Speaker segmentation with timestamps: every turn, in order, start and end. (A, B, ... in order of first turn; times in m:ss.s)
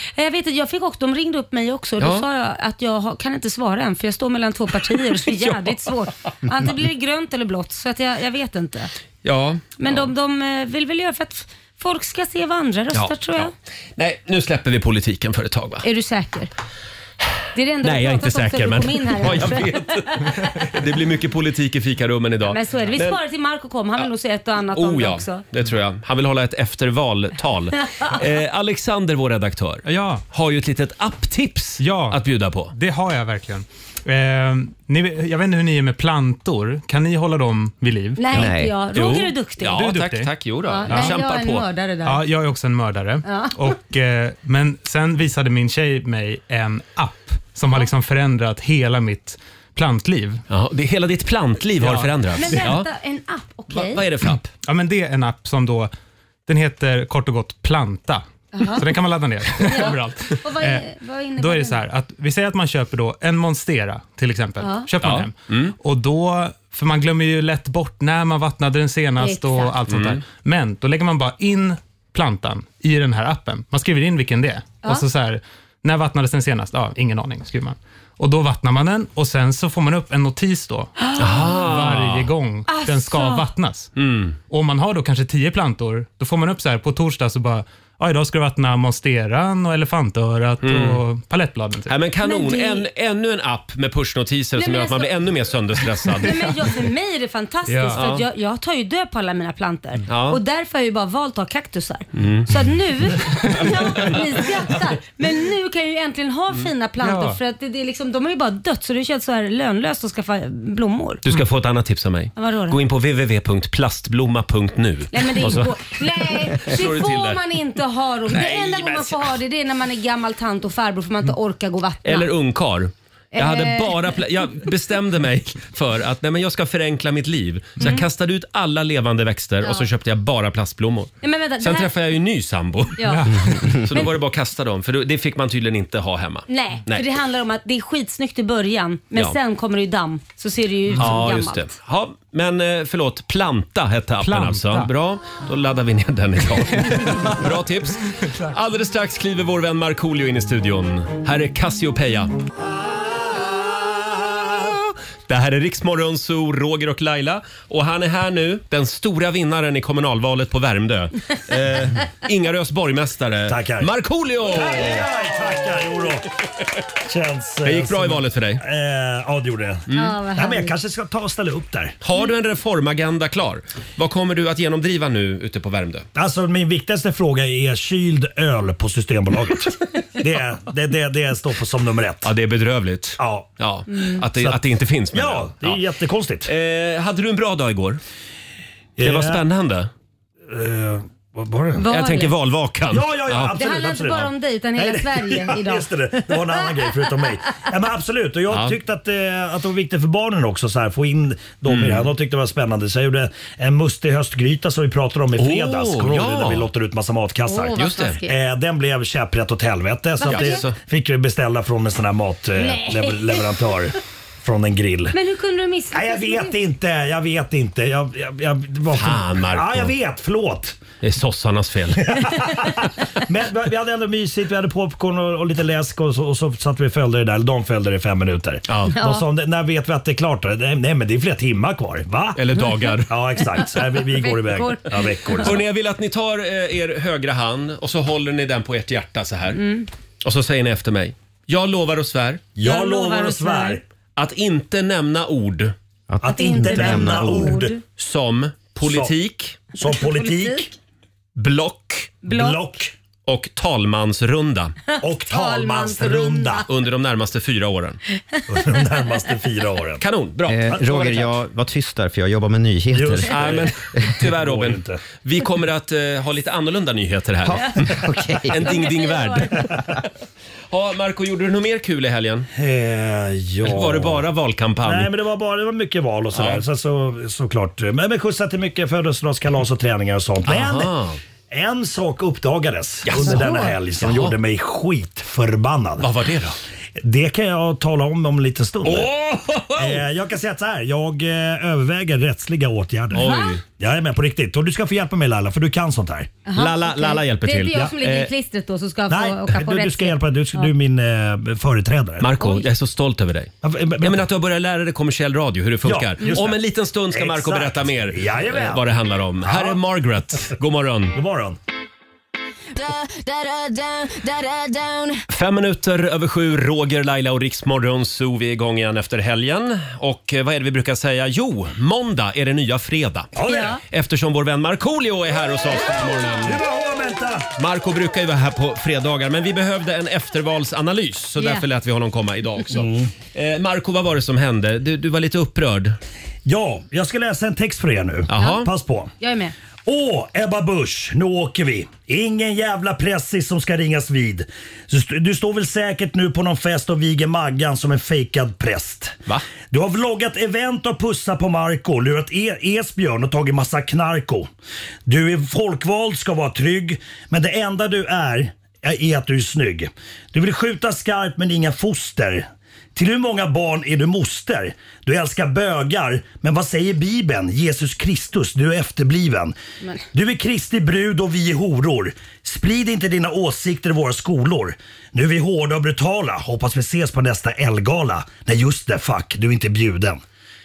0:00.2-0:08.9 A
0:02.0-0:02.2 B
0:09.2-0:10.1 B
0:09.8-0:13.5 A
0:12.9-0:15.9 B
0:15.8-0:16.5 A
0:17.5-0:20.3 A
0:17.8-0:23.2 B
0:22.5-0:25.4 A
0:24.7-0:32.7 B
0:29.8-0:30.2 C
0:31.8-0:32.2 C
0:32.7-0:38.4 C
0:38.2-0:39.8 A
0:38.3-0:38.7 D
0:39.0-0:41.6 B
0:39.7-0:40.3 C
0:40.7-0:42.2 A
0:40.9-0:41.2 C
0:42.0-0:50.4 C
0:43.2-0:43.7 A
0:50.5-0:52.9 B
0:51.8-0:52.7 C
0:52.4-0:54.0 A
0:53.7-0:54.5 B
0:54.6-0:55.9 C
0:56.5-1:23.9 C
0:58.5-0:58.9 A
0:59.6-1:01.8 A
1:04.6-1:04.9 A
1:05.0-1:05.7 B
1:09.2-1:09.8 A
1:09.9-1:10.2 B
1:21.0-1:21.7 A
1:21.2-1:22.3 B
1:22.7-1:23.5 A
1:24.0-1:24.4 B
1:24.5-1:31.9 C
1:30.6-1:31.0 B
1:31.9-1:36.5 B
1:32.2-1:32.8 A
1:34.6-1:35.2 A
1:36.2-1:51.2 A
1:37.7-1:38.0 C
1:38.0-1:38.2 B
1:40.1-1:40.4 B
1:42.2-1:42.5 B
1:47.0-1:47.4 C
1:51.2-1:57.4 B
1:52.4-1:52.8 A
1:55.1-2:02.3 A
1:58.3-1:59.3 B
2:02.0-2:17.0 B
2:03.3-2:04.0 A
2:07.8-2:08.1 A
2:11.2-2:11.9 A
2:13.0-2:13.3 A
2:13.0-2:13.8 C
2:16.5-2:21.7 A
2:21.0-2:32.4 B
2:24.2-2:24.9 C
2:34.6-2:45.1 B
2:43.5-2:43.9 E
2:44.4-2:46.3 E
2:47.0-2:52.0 E
2:47.6-2:48.6 B
2:49.9-2:50.2 B
2:49.9-2:50.7 A
2:52.0-2:56.1 B
2:56.2-3:02.3 E
3:02.2-3:05.8 B
3:03.2-3:03.6 E
3:03.9-3:04.2 A
3:05.1-3:06.5 E
3:06.4-3:08.0 B
3:09.0-3:09.4 E
3:09.0-3:09.9 B
3:10.5-3:11.8 E
3:11.8-3:12.3 A
3:11.9-3:13.6 B
3:12.9-3:35.2 E
3:13.6-3:16.3 A
3:18.5-3:18.8 B
3:21.7-3:22.1 B
3:25.4-3:26.7 B
3:27.4-3:28.3 A
3:27.8-3:28.2 B
3:30.2-3:30.6 A
3:30.3-3:30.8 B
3:32.6-3:33.4 A
3:35.1-3:36.5 A
3:35.9-3:40.8 E
3:39.0-3:39.9 B
3:41.0-3:42.4 B
3:42.0-3:52.4 E
3:48.7-3:49.0 B
3:48.9-3:49.2 A
3:52.4-3:53.1 B
3:53.0-3:55.6 E
3:54.1-3:55.6 A
3:55.4-3:59.6 B
3:59.6-3:59.9 A
4:00.2-4:02.5 B
4:02.6-4:03.8 E
4:02.6-4:03.8 A
4:04.2-4:05.7 B
4:06.1-4:07.6 D
4:06.2-4:07.8 E
4:06.2-4:07.8 A
4:08.0-4:09.6 B
4:08.8-4:09.1 E
4:09.7-4:10.7 E
4:09.8-4:10.7 A
4:11.4-4:12.2 B
4:12.2-4:12.7 A
4:12.3-4:12.9 E
4:13.3-4:14.8 B
4:14.9-4:16.7 A
4:15.0-4:16.6 E
4:16.7-4:18.0 B
4:18.5-4:20.0 E
4:20.0-4:21.3 B
4:20.5-4:23.5 D
4:20.7-4:21.0 E
4:22.9-4:25.0 E
4:23.3-4:30.1 B
4:27.4-4:28.6 D
4:28.5-4:29.7 A
4:30.7-4:32.5 B
4:32.5-4:34.3 E
4:33.6-4:35.1 B
4:34.8-4:40.9 E
4:36.3-4:36.6 B
4:40.4-4:41.2 B
4:41.5-4:46.1 E
4:43.0-4:44.4 B
4:43.2-4:43.6 A
4:46.0-4:46.6 B
4:47.0-4:49.2 E
4:48.8-4:50.0 B
4:49.8-4:56.3 E
4:53.1-4:53.6 B
4:53.2-4:53.6 A
4:56.5-5:00.7 A
4:56.6-4:58.3 B
4:59.1-5:02.3 E
5:02.2-5:11.2 B
5:02.4-5:02.7 A
5:03.6-5:04.2 E
5:05.8-5:08.9 E
5:09.4-5:09.8 E
5:11.1-5:11.6 E
5:12.8-5:15.2 F
5:15.3-5:26.6 B
5:23.4-5:23.8 E
5:23.4-5:23.8 A
5:26.4-5:27.5 E
5:27.6-5:36.0 B
5:31.4-5:31.6 A
5:32.7-5:33.1 E
5:36.4-5:39.1 E
5:38.3-5:38.7 B
5:38.4-5:38.6 A
5:39.2-5:39.5 A
5:39.9-5:54.5 E
5:55.1-6:09.6 E
6:10.1-6:20.2 E